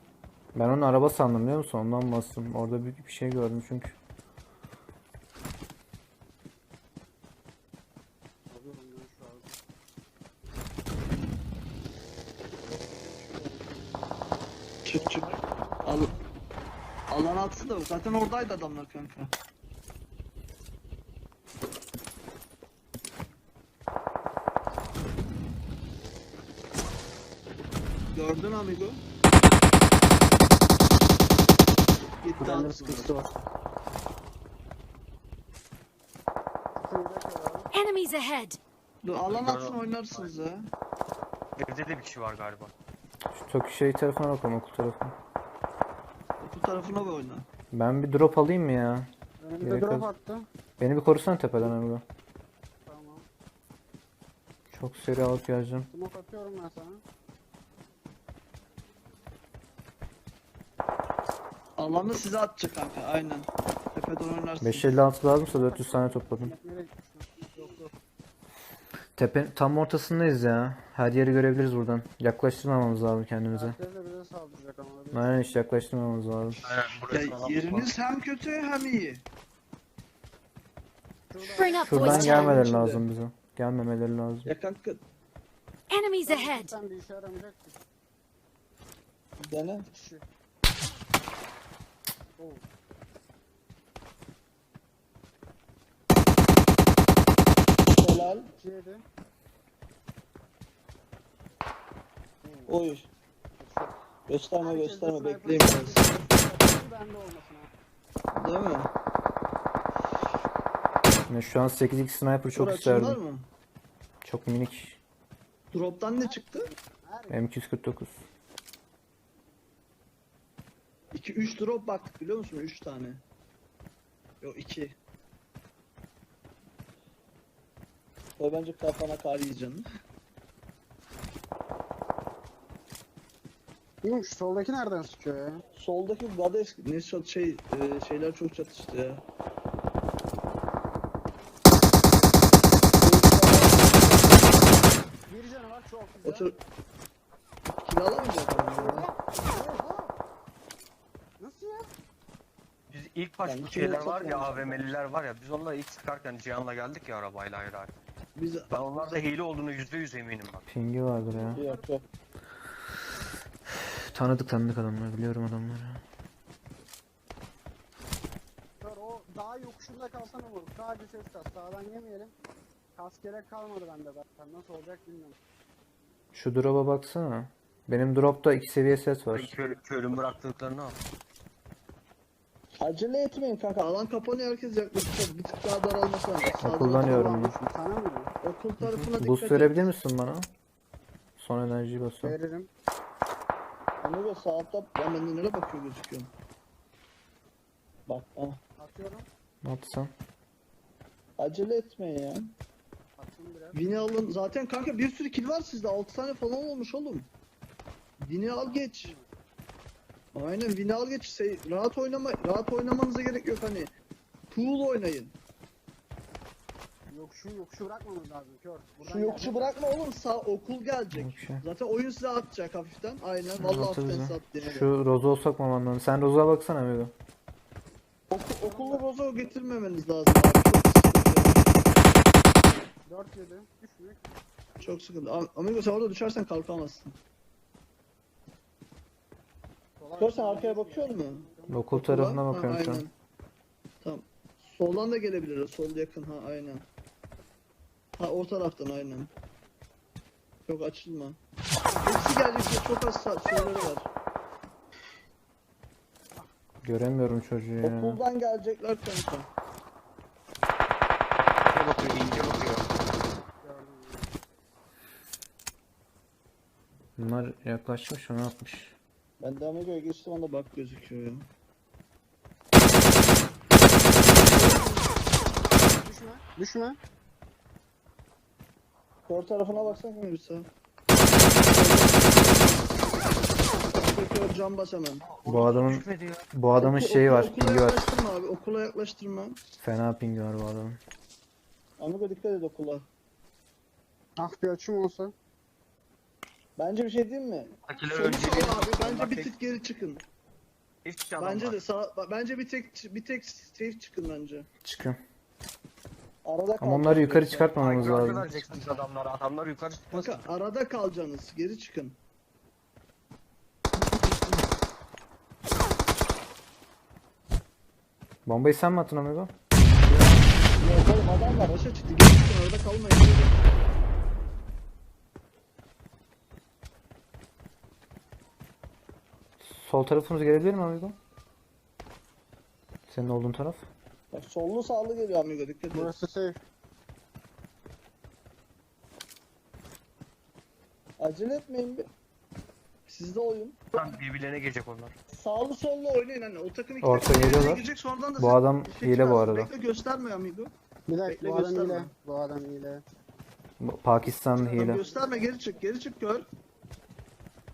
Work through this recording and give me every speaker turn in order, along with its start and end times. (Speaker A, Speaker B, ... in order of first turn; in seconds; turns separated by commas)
Speaker A: 0.5-3.9, Speaker B: 8.5-9.6, Speaker B: 12.6-14.1, Speaker C: 14.8-15.3, Speaker B: 14.9-16.1, Speaker C: 15.8-16.1, Speaker C: 17.1-19.3, Speaker C: 28.1-29.0, Speaker C: 32.2-33.1, Speaker B: 32.4-33.3, Speaker B: 36.8-37.7, Speaker D: 37.7-38.6, Speaker C: 39.0-40.7, Speaker E: 39.2-40.3, Speaker E: 41.6-42.7, Speaker A: 43.3-45.1, Speaker C: 46.4-47.5, Speaker A: 47.7-49.1, Speaker B: 49.4-50.5, Speaker A: 49.6-50.1, Speaker A: 50.8-52.0, Speaker B: 52.9-53.3, Speaker A: 54.7-55.9, Speaker B: 55.9-57.0, Speaker C: 61.8-65.0, Speaker A: 64.6-66.5, Speaker B: 65.5-67.9, Speaker A: 69.2-73.8, Speaker B: 73.5-75.4, Speaker A: 75.1-76.6, Speaker E: 76.6-77.9, Speaker C: 77.1-79.2, Speaker B: 81.3-82.1, Speaker D: 81.5-82.6, Speaker A: 81.8-84.5, Speaker C: 81.9-83.0, Speaker C: 84.4-85.0, Speaker D: 85.9-86.7, Speaker B: 86.2-87.8, Speaker C: 89.4-89.9, Speaker B: 89.9-90.2, Speaker B: 92.4-92.6, Speaker C: 98.0-98.5, Speaker B: 98.2-99.0, Speaker B: 102.4-102.8, Speaker C: 102.7-103.1, Speaker B: 103.6-104.0, Speaker C: 104.3-106.0, Speaker B: 104.6-107.7, Speaker C: 108.3-108.9, Speaker A: 111.3-113.2, Speaker C: 112.5-113.5, Speaker A: 114.2-115.0, Speaker C: 115.7-116.7, Speaker B: 116.2-117.5, Speaker A: 117.3-118.2, Speaker C: 121.1-123.2, Speaker C: 124.4-125.0, Speaker C: 128.4-129.8, Speaker B: 134.0-135.6, Speaker C: 135.8-139.2, Speaker B: 142.0-142.6, Speaker C: 142.9-144.1, Speaker B: 143.9-146.5, Speaker C: 146.2-146.5, Speaker C: 147.8-149.1, Speaker B: 148.5-150.2, Speaker B: 151.4-151.9, Speaker E: 152.9-157.9, Speaker C: 153.4-154.9, Speaker C: 158.3-159.1, Speaker E: 158.7-160.6, Speaker A: 160.7-161.6, Speaker B: 161.3-161.9, Speaker C: 161.5-162.0, Speaker A: 164.1-166.0, Speaker B: 168.8-172.3, Speaker B: 172.9-175.4, Speaker A: 176.3-179.5, Speaker E: 179.3-181.0, Speaker C: 182.8-187.4, Speaker A: 186.6-187.6, Speaker B: 186.9-188.3, Speaker C: 188.4-189.9, Speaker A: 188.8-190.5, Speaker A: 191.4-192.3, Speaker B: 192.2-192.7, Speaker C: 194.0-196.3, Speaker C: 198.1-198.6, Speaker B: 198.8-199.3, Speaker A: 199.6-200.1, Speaker C: 201.4-202.5, Speaker B: 203.2-203.8, Speaker C: 203.7-207.3, Speaker C: 208.2-209.1, Speaker B: 208.6-209.3, Speaker C: 210.3-213.9, Speaker C: 214.5-215.3, Speaker B: 217.1-219.8, Speaker C: 219.0-224.9, Speaker A: 221.1-221.6, Speaker A: 223.6-227.1, Speaker C: 228.3-231.6, Speaker B: 228.6-229.5, Speaker B: 233.1-234.2, Speaker C: 234.8-237.2, Speaker B: 240.0-241.8, Speaker C: 240.2-243.1, Speaker A: 241.7-243.1, Speaker C: 244.0-246.8, Speaker C: 248.2-249.3, Speaker C: 250.7-251.4, Speaker C: 252.0-254.1, Speaker A: 256.8-258.2, Speaker C: 257.8-259.5, Speaker E: 261.7-262.9, Speaker B: 263.6-264.3, Speaker A: 267.2-268.9, Speaker C: 269.4-271.4, Speaker B: 274.3-275.2, Speaker B: 275.9-277.0, Speaker C: 279.3-280.7, Speaker C: 281.7-282.8, Speaker C: 283.9-285.2, Speaker E: 285.2-286.4, Speaker A: 285.4-288.1, Speaker C: 286.8-289.6, Speaker A: 289.8-291.0, Speaker C: 292.0-293.1, Speaker B: 294.4-295.3, Speaker C: 296.8-300.2, Speaker E: 297.9-299.6, Speaker E: 301.0-301.8, Speaker C: 301.4-304.7, Speaker A: 304.8-305.2, Speaker C: 306.4-308.5, Speaker A: 306.8-308.4, Speaker E: 307.8-310.4, Speaker C: 310.1-312.2, Speaker A: 318.4-319.5, Speaker C: 320.1-323.6, Speaker A: 329.6-331.2, Speaker A: 333.1-333.9, Speaker C: 334.3-336.1, Speaker B: 335.9-336.6, Speaker C: 341.2-342.1, Speaker C: 343.1-343.8, Speaker E: 343.9-345.1, Speaker C: 345.3-350.7, Speaker A: 347.0-349.7, Speaker B: 351.1-353.0, Speaker C: 351.2-352.1, Speaker A: 353.8-355.0, Speaker B: 354.4-355.8, Speaker C: 354.7-356.5